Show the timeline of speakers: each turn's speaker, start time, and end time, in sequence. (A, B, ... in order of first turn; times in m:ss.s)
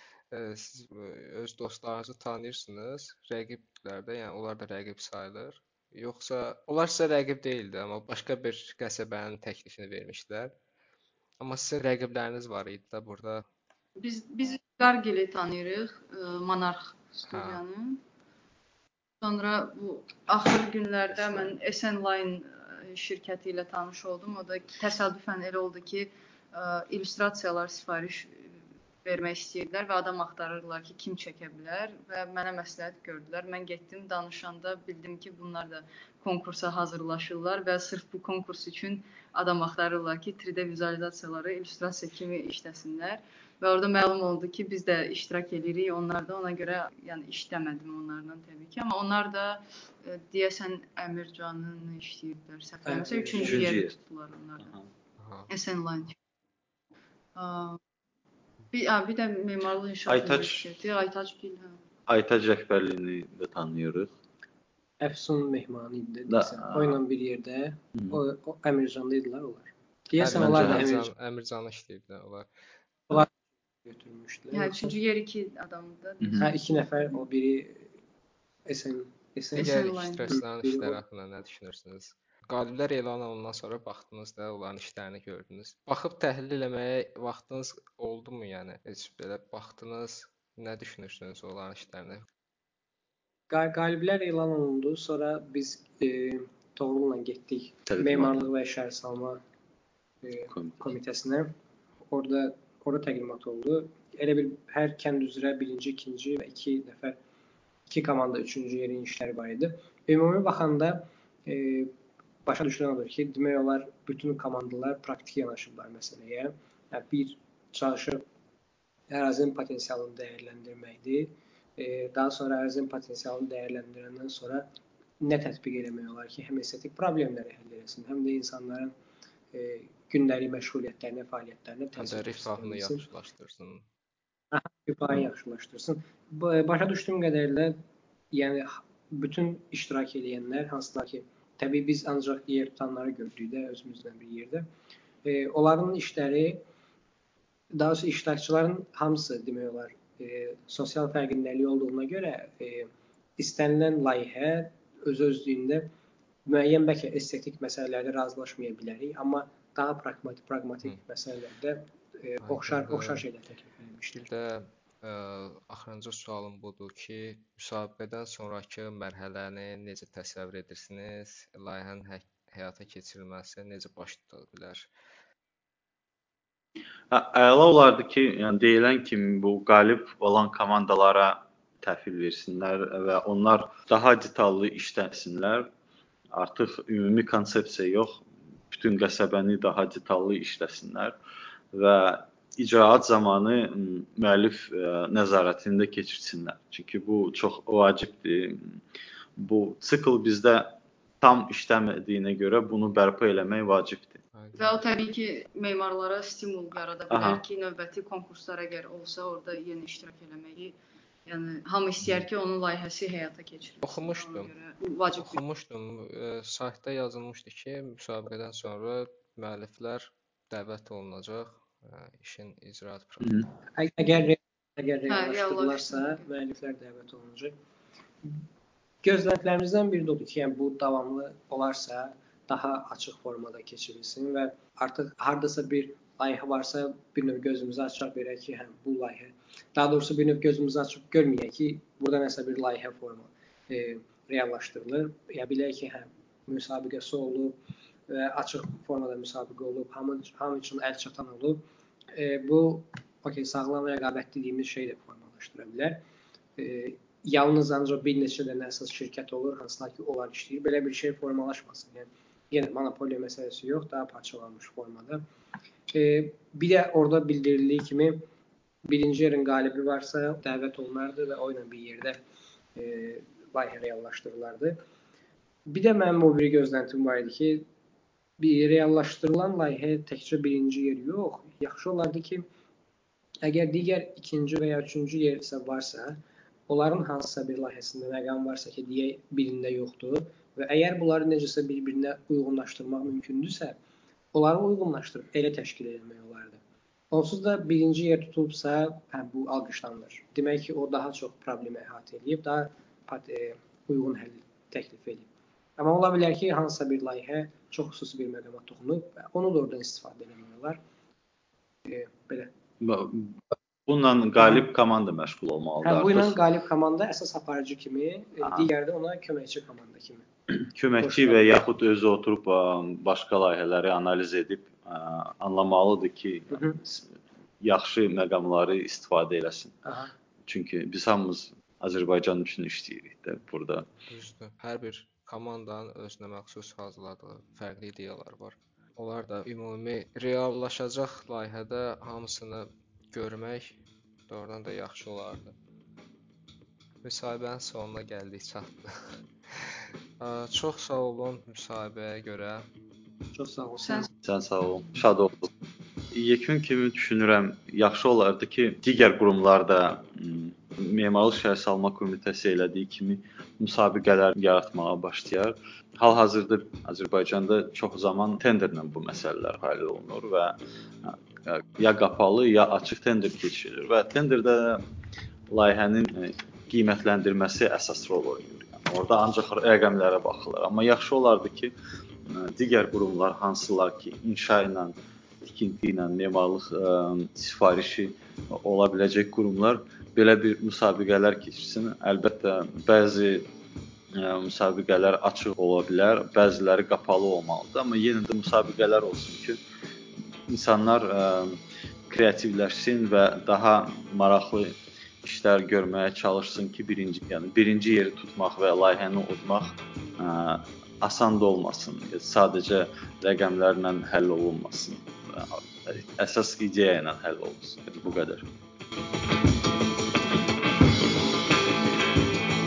0:00.3-0:10.5 A
0:11.4-0:13.4 A
0:14.0-0:18.0 B
0:17.3-0:17.6 A
0:19.2-0:28.5 B
0:29.0-0:54.8 B
0:52.9-0:53.6 C
0:53.4-0:53.9 D
0:55.2-0:55.5 A
0:55.5-0:56.2 B
0:57.4-0:57.8 B
0:58.7-1:01.8 B
1:00.1-1:00.6 D
1:02.1-1:04.1 D
1:05.0-1:11.1 C
1:06.3-1:07.0 D
1:10.2-1:12.5 A
1:10.4-1:10.8 D
1:13.8-1:14.9 C
1:14.5-1:16.5 B
1:16.2-1:16.5 D
1:16.4-1:17.9 C
1:18.7-1:19.8 C
1:19.6-1:20.4 B
1:19.6-1:32.2 A
1:20.3-1:21.0 C
1:33.5-1:39.4 C
1:37.9-1:38.4 D
1:40.2-1:41.5 C
1:40.5-1:40.8 D
1:42.1-1:47.2 C
1:47.9-1:51.9 C
1:52.4-1:58.2 C
1:59.1-2:04.7 C
2:05.2-2:08.9 C
2:09.5-2:13.0 C
2:12.0-2:13.8 A
2:14.5-2:17.8 C
2:18.3-2:24.7 C
2:25.2-2:26.6 C
2:27.7-2:35.9 C
2:36.5-2:44.3 C
2:42.4-2:43.2 A
2:44.2-2:54.9 A
2:57.1-3:05.7 D
3:06.3-3:11.2 D
3:11.7-3:18.8 D
3:19.4-3:24.2 D
3:24.4-3:24.8 A
3:24.6-3:35.4 B
3:27.1-3:27.4 D
3:33.8-3:34.5 A
3:35.2-3:43.4 A
3:43.8-3:47.6 C
3:45.1-3:46.2 B
3:49.0-4:07.6 C
4:08.1-4:11.6 C
4:12.1-4:16.0 C
4:16.6-4:25.2 C
4:25.9-4:28.2 C
4:28.9-4:32.2 C
4:32.7-4:34.8 C
4:35.7-4:37.7 C
4:38.4-4:42.4 C
4:43.4-4:53.8 C
4:54.3-4:56.6 C
4:57.1-5:10.8 C
5:11.8-5:12.5 C
5:12.8-5:16.4 D
5:15.8-5:20.3 C
5:18.4-5:18.7 D
5:20.5-5:27.1 D
5:21.0-5:21.6 C
5:26.5-5:26.8 C
5:27.6-5:29.8 D
5:29.8-5:30.1 C
5:30.4-5:33.9 D
5:34.1-5:45.6 A
5:47.0-5:52.7 A
5:53.3-5:54.1 C
5:53.8-5:54.1 B
5:54.2-5:55.5 D
5:56.1-6:14.8 D
6:15.5-6:21.7 D
6:22.3-6:33.5 D
6:34.1-6:39.6 D
6:40.5-6:58.5 D